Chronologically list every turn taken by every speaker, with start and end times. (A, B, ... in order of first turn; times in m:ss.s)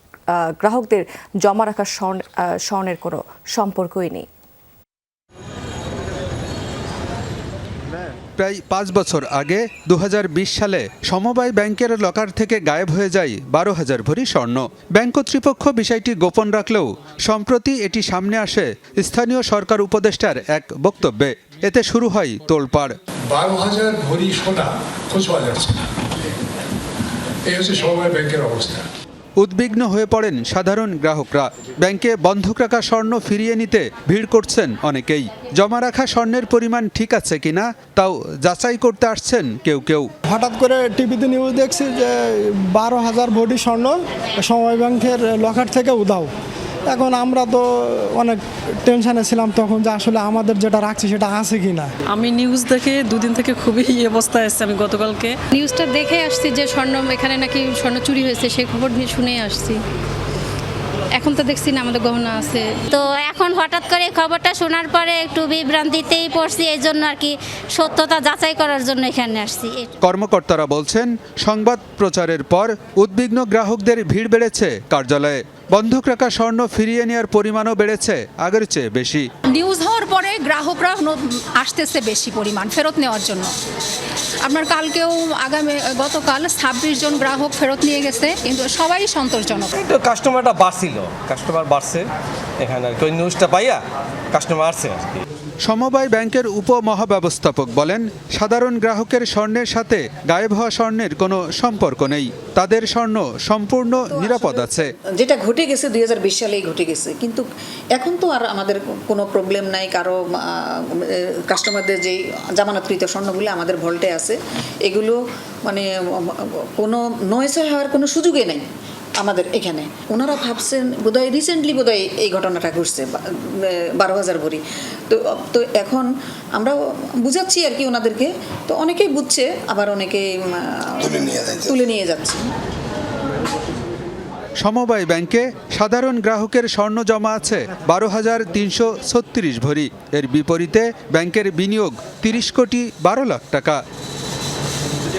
0:00.3-0:04.2 A
0:08.4-0:22.9 B
0:23.3-0:25.8 C
0:27.5-0:28.9 C
0:29.4-0:40.1 B
0:40.3-0:46.3 D
0:46.9-0:51.9 D
0:52.0-0:55.4 E
0:55.5-0:59.8 F
1:01.1-1:02.8 F
1:02.9-1:09.9 G
1:10.0-1:19.3 B
1:19.5-1:23.5 H
1:24.4-1:29.8 H
1:29.9-1:32.0 I
1:32.6-1:33.8 I
1:34.3-1:35.2 I
1:35.6-1:44.9 B
1:44.2-1:44.6 J
1:45.2-1:47.4 J
1:47.9-1:50.2 J
1:51.5-1:58.6 J
1:59.2-2:12.4 J
2:14.6-2:23.8 B